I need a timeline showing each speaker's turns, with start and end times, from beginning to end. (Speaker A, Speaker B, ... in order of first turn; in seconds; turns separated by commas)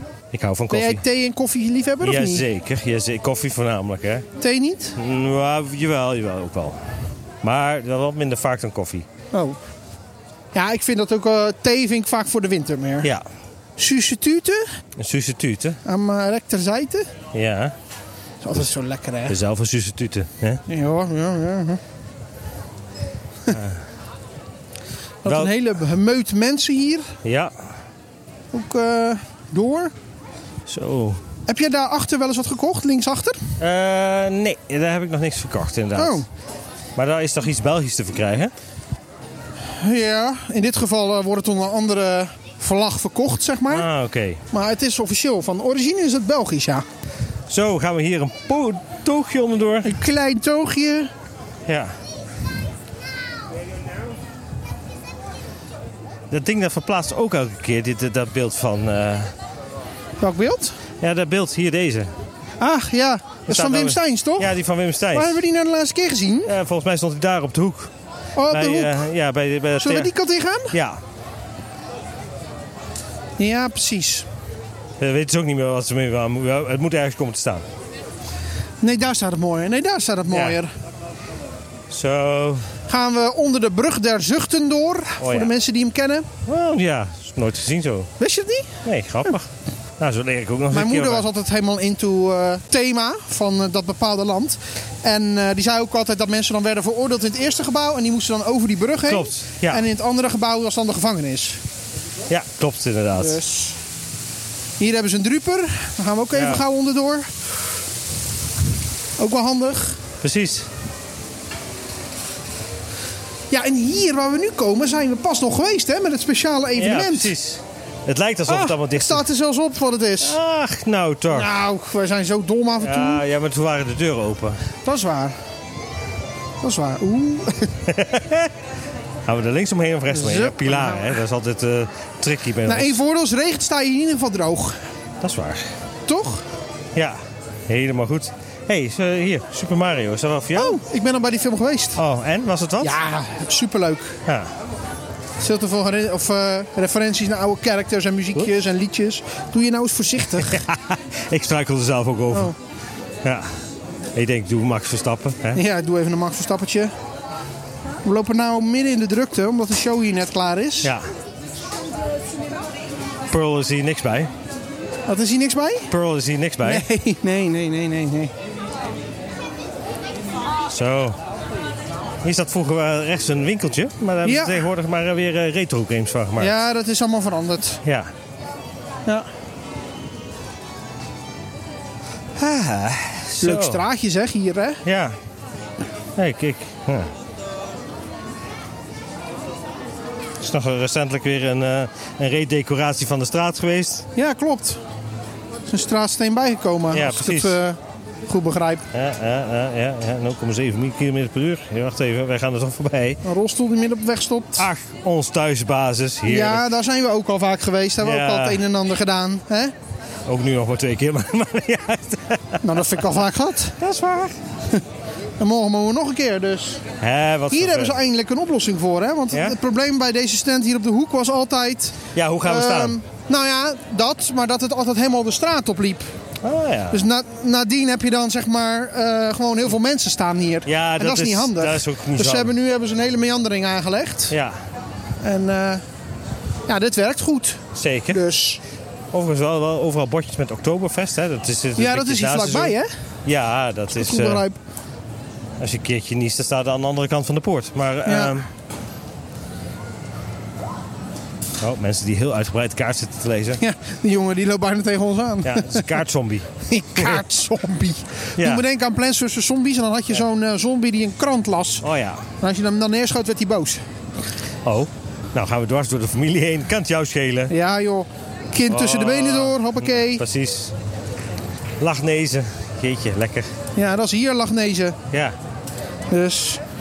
Speaker A: 0.3-1.0, Speaker B: 0.7-2.5, Speaker A: 2.0-4.3, Speaker B: 4.4-5.0, Speaker A: 5.0-6.8, Speaker A: 7.4-9.1, Speaker B: 9.3-9.6, Speaker B: 10.5-13.1, Speaker B: 13.8-14.7, Speaker A: 15.0-15.8, Speaker B: 15.8-17.1, Speaker A: 17.3-17.8, Speaker B: 18.4-19.4, Speaker A: 19.3-20.6, Speaker B: 20.7-21.8, Speaker A: 23.5-23.8, Speaker B: 25.2-27.1, Speaker A: 25.2-25.5, Speaker A: 27.2-27.7, Speaker B: 28.5-29.9, Speaker A: 30.7-31.2, Speaker B: 31.5-33.5, Speaker A: 33.6-36.2, Speaker B: 36.0-36.3, Speaker A: 37.0-38.5, Speaker B: 39.7-43.9, Speaker A: 43.7-44.4, Speaker B: 44.5-46.9, Speaker A: 47.5-50.0, Speaker B: 49.8-51.1, Speaker A: 51.7-52.0, Speaker A: 56.3-59.3, Speaker B: 60.2-60.8, Speaker A: 61.0-62.1, Speaker B: 62.6-64.6, Speaker A: 63.5-65.4, Speaker B: 65.1-66.5, Speaker A: 66.5-67.9, Speaker B: 68.4-69.0, Speaker A: 68.5-70.1, Speaker B: 69.8-70.8, Speaker A: 70.7-71.0, Speaker B: 73.4-74.3, Speaker A: 75.0-77.7, Speaker B: 78.8-80.7, Speaker A: 80.3-80.6, Speaker A: 81.9-82.8, Speaker B: 82.9-86.3, Speaker A: 85.2-85.5, Speaker A: 86.5-88.1, Speaker B: 88.2-88.8, Speaker A: 88.8-91.3, Speaker B: 90.7-101.6, Speaker A: 99.1-99.8, Speaker A: 102.3-103.4, Speaker B: 103.2-103.8, Speaker B: 104.8-107.3, Speaker A: 106.3-106.6, Speaker B: 109.2-110.0, Speaker A: 110.2-110.7, Speaker B: 113.5-117.3, Speaker A: 116.8-119.2, Speaker B: 118.5-120.4, Speaker A: 120.2-121.5, Speaker B: 121.3-123.2, Speaker A: 122.8-124.6, Speaker B: 124.8-125.4, Speaker B: 126.6-127.8, Speaker A: 127.9-128.5, Speaker A: 129.2-133.0, Speaker B: 130.1-131.2, Speaker B: 132.7-134.8, Speaker A: 135.2-135.7, Speaker B: 136.1-136.4, Speaker A: 136.9-140.8, Speaker B: 140.6-142.0, Speaker A: 142.0-143.0, Speaker B: 142.8-144.2, Speaker A: 144.3-144.5, Speaker B: 145.4-150.6, Speaker A: 150.3-152.5, Speaker A: 153.2-153.6, Speaker A: 154.1-155.6, Speaker B: 155.5-156.9, Speaker B: 158.0-160.9, Speaker A: 160.8-161.1, Speaker A: 163.3-164.3, Speaker B: 165.1-165.9, Speaker A: 165.9-166.9, Speaker B: 166.6-168.3, Speaker A: 170.7-171.2, Speaker A: 172.2-176.6, Speaker B: 174.2-174.7, Speaker B: 176.4-177.8, Speaker A: 177.8-178.1, Speaker A: 182.4-183.8, Speaker B: 183.4-184.8, Speaker A: 184.8-185.2, Speaker A: 186.2-187.1, Speaker A: 190.4-194.1, Speaker B: 194.2-194.8, Speaker B: 195.7-198.8, Speaker A: 196.9-197.6, Speaker A: 198.9-203.2, Speaker B: 203.2-204.7, Speaker A: 204.6-206.7, Speaker B: 206.3-209.7, Speaker A: 208.0-208.6, Speaker A: 210.3-213.0, Speaker B: 212.6-213.8, Speaker A: 213.8-214.4, Speaker B: 215.4-216.8, Speaker A: 217.0-218.0, Speaker B: 217.5-226.1, Speaker A: 219.3-219.6, Speaker A: 222.1-223.0, Speaker A: 226.4-227.0, Speaker B: 226.9-234.3, Speaker A: 230.7-232.5, Speaker A: 234.3-234.6, Speaker B: 235.2-235.8, Speaker B: 236.7-238.6, Speaker A: 237.8-238.2, Speaker A: 239.1-244.4, Speaker B: 241.8-242.9, Speaker B: 243.9-244.6, Speaker A: 245.6-248.5, Speaker B: 248.1-248.4, Speaker A: 251.6-253.6, Speaker B: 253.6-256.0, Speaker A: 255.4-257.2, Speaker B: 256.7-261.9, Speaker A: 258.4-258.6, Speaker A: 261.8-262.3, Speaker B: 262.4-263.8, Speaker A: 264.6-267.5, Speaker B: 267.5-270.2, Speaker A: 268.7-270.8, Speaker A: 271.8-273.5, Speaker B: 273.8-275.0, Speaker A: 275.1-275.4, Speaker B: 276.1-276.6